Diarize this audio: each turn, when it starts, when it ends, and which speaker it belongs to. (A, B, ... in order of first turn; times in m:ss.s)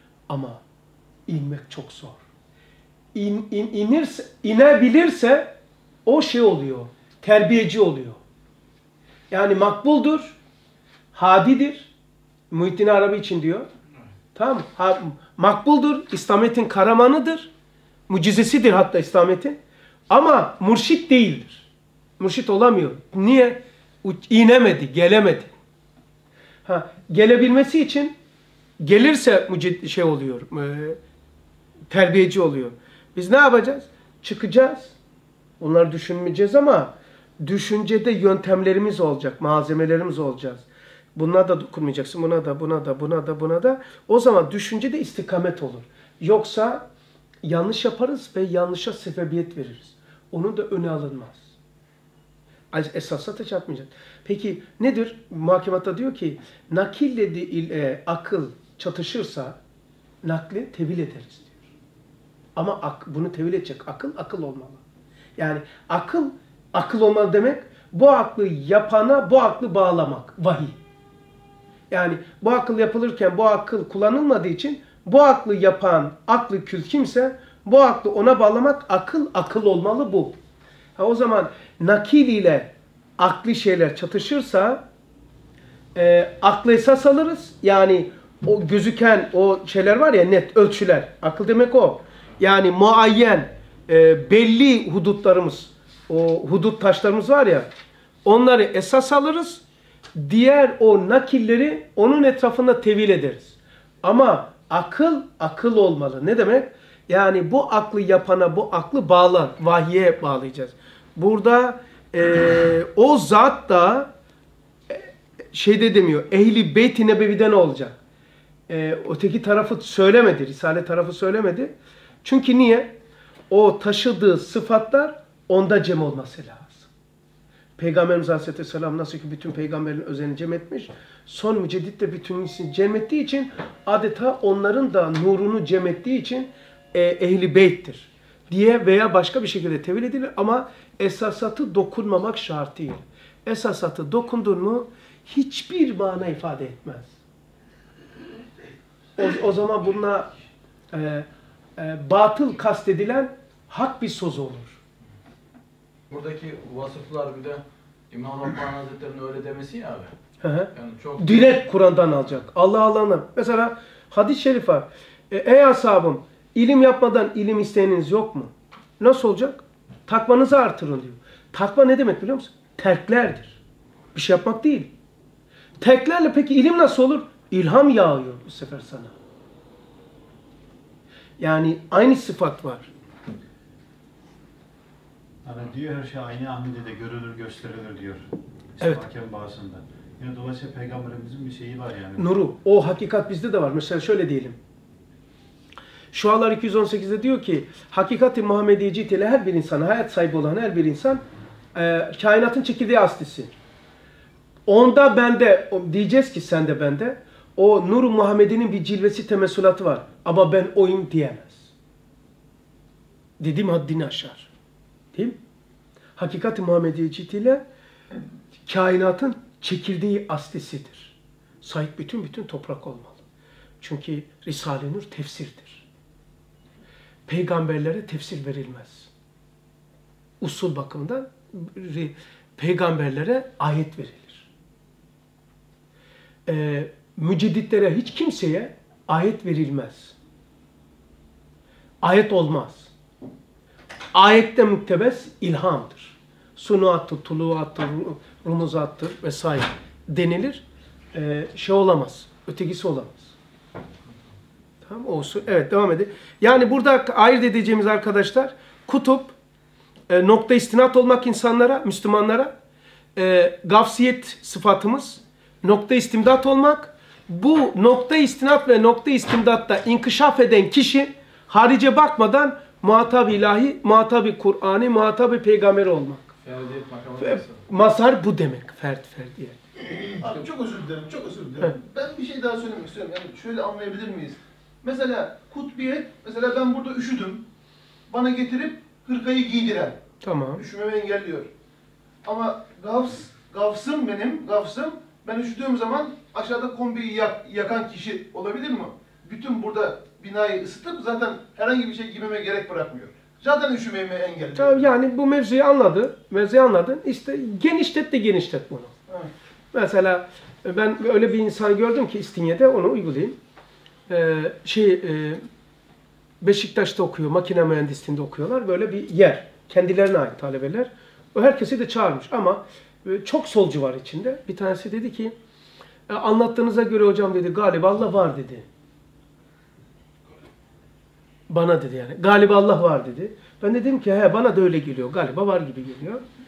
0:00.3-0:00.6 A
0:01.3-0:02.2 A
0:03.1-0:05.5 A
0:06.1-0:08.2 A
0:09.3-0:10.4 A
0:11.1-0:11.9 A
0:12.5-0:13.7 A
0:14.4-0:17.5 A
0:18.1-0:19.6 A
0:20.1-0:21.7 A
0:22.2-0:25.5 A
0:26.6-0:28.2 A
0:28.8-0:31.0 A
0:31.9-0:35.0 A
0:35.6-0:40.6 A
0:41.2-0:46.9 A
0:47.4-0:51.5 A
0:52.7-0:59.6 A
1:00.2-1:01.6 A
1:02.6-1:04.8 A
1:05.4-1:10.8 A
1:11.9-1:20.4 A
1:21.0-1:24.8 A
1:26.0-1:37.7 A
1:38.2-1:39.6 A
1:40.2-1:54.1 A
1:54.9-1:58.0 A
1:58.7-2:03.0 A
2:03.5-2:06.9 A
2:07.8-2:27.1 A
2:29.2-2:30.3 A
2:30.9-2:34.8 A
2:36.1-2:40.1 B
2:40.4-2:53.6 A
2:40.7-2:41.6 B
2:54.1-2:54.9 A
2:55.8-2:59.1 A
3:01.4-3:02.9 A
3:05.4-3:12.3 C
3:12.2-3:14.6 A
3:16.1-3:21.2 A
3:21.8-3:23.5 A
3:24.7-3:31.7 A
3:33.4-3:34.5 A
3:36.2-3:37.6 A
3:38.7-3:43.2 A
3:43.8-3:45.8 A
3:47.3-3:49.1 A
3:50.4-3:54.5 A
3:56.5-4:00.2 A
4:02.0-4:02.9 A
4:04.1-4:10.6 A
4:11.1-4:13.3 A
4:14.8-4:19.4 A
4:20.1-4:22.5 A
4:23.2-4:36.3 A
4:36.4-4:37.6 B
4:37.2-4:39.6 A
4:40.2-4:47.4 D
4:48.1-4:50.0 D
4:50.2-4:50.6 A
4:50.6-4:51.5 D
4:52.2-5:04.9 D
5:04.6-5:09.0 A
5:09.7-5:13.4 A
5:14.1-5:15.4 A
5:16.4-5:25.3 A
5:26.1-5:28.7 A
5:31.5-5:36.2 A